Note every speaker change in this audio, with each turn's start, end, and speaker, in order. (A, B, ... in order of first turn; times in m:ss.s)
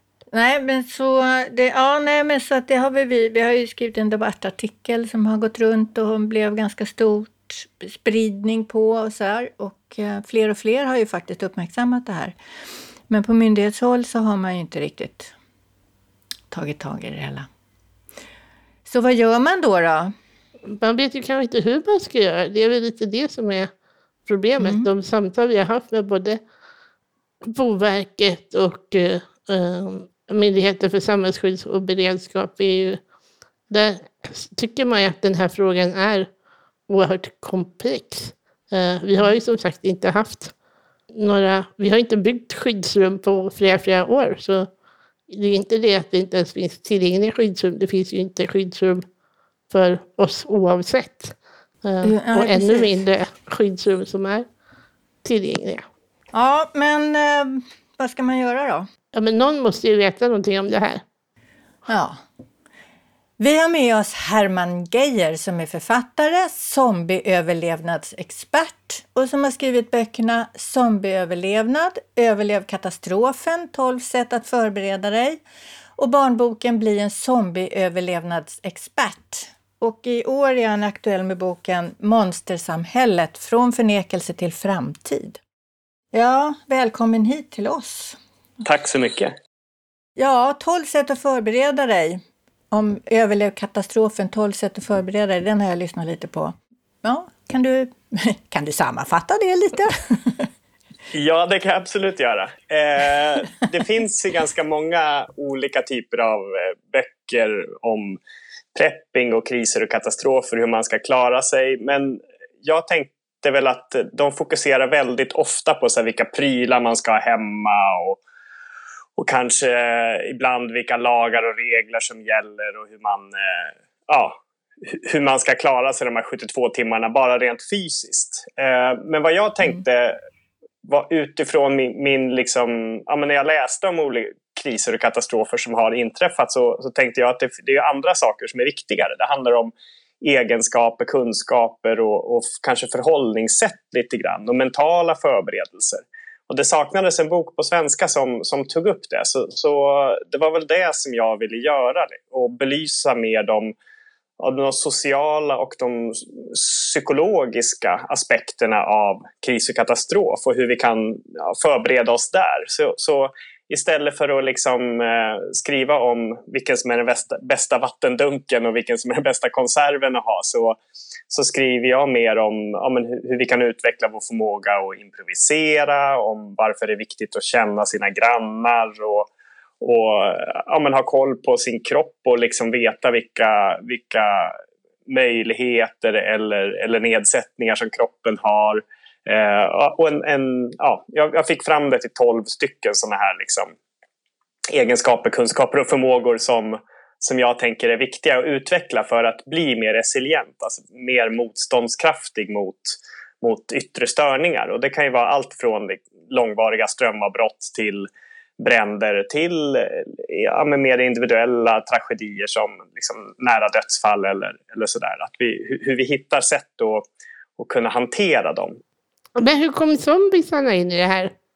0:00.3-0:12.4 A
0:13.1-0:15.3 A
0:16.5-0:17.5 A
0:18.8-0:20.1 A
0:20.7-0:23.7 B
0:24.3-0:26.4 B
0:24.6-0:24.9 A
0:27.4-0:33.0 B
0:33.7-0:36.3 B
0:36.9-0:40.5 B
0:41.1-0:44.7 B
0:45.3-0:49.0 B
0:49.7-0:54.5 B
0:52.0-0:53.0 A
0:55.2-0:55.8 B
0:56.3-0:58.9 A
0:59.1-1:01.0 B
1:01.9-1:02.2 A
1:03.4-1:15.4 A
1:16.0-1:25.4 A
1:26.1-1:28.2 A
1:28.6-1:29.3 C
1:30.2-1:40.5 A
1:41.1-1:48.2 C
1:48.8-1:58.2 C
1:59.2-2:10.2 C
2:10.8-2:33.8 C
2:34.4-2:50.8 C
2:51.3-2:59.3 C
2:59.8-3:13.7 C
3:14.7-3:37.0 C
3:37.6-3:38.8 C
3:39.4-3:41.3 B